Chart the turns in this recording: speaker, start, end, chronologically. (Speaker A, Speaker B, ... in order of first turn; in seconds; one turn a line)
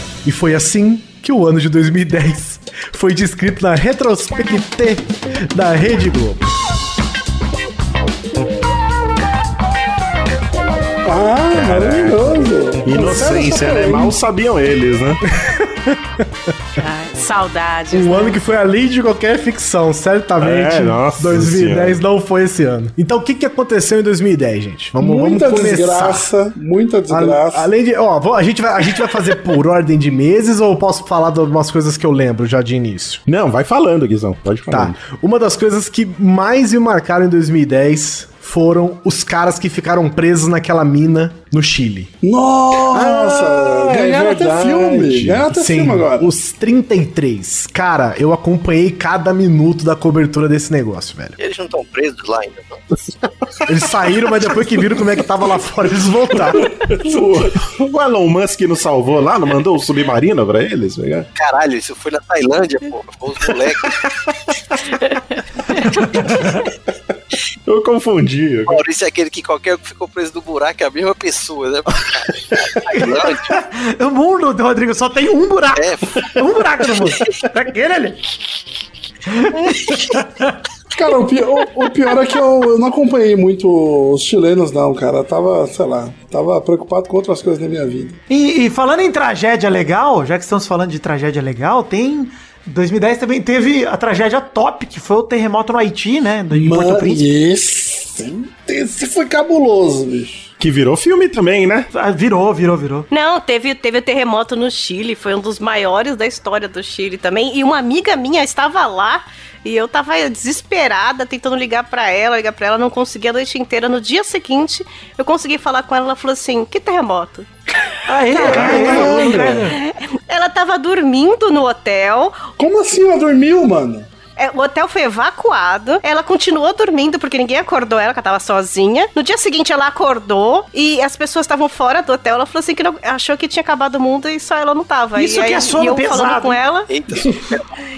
Speaker A: 0.2-6.5
Speaker B: 11.0-14.2
Speaker C: 11.5-15.2
Speaker A: 15.4-16.2
Speaker D: 16.8-18.4
Speaker A: 17.9-26.3
Speaker C: 20.4-22.0
Speaker B: 25.0-27.7
Speaker A: 27.1-33.2
Speaker C: 33.3-35.0
Speaker A: 34.7-42.1
Speaker B: 42.2-46.3
Speaker C: 42.9-45.4
Speaker A: 45.5-51.4
Speaker E: 51.4-52.8
Speaker A: 53.6-56.7
Speaker C: 56.5-61.3
Speaker E: 61.3-64.0
Speaker C: 64.0-64.3
Speaker C: 66.2-66.5
Speaker C: 67.7-68.8
Speaker E: 68.7-73.6
Speaker F: 72.9-78.2
Speaker E: 75.7-76.3
Speaker F: 79.3-80.5
Speaker B: 80.9-88.2
Speaker F: 88.3-97.3
Speaker B: 96.5-100.5
Speaker C: 100.6-101.9
Speaker F: 101.9-103.1
Speaker D: 103.1-117.5
Speaker F: 118.0-119.8
Speaker D: 118.3-122.4
Speaker B: 118.4-119.7
Speaker B: 122.6-124.1
Speaker D: 124.3-136.9
Speaker F: 135.2-136.6
Speaker E: 136.9-137.7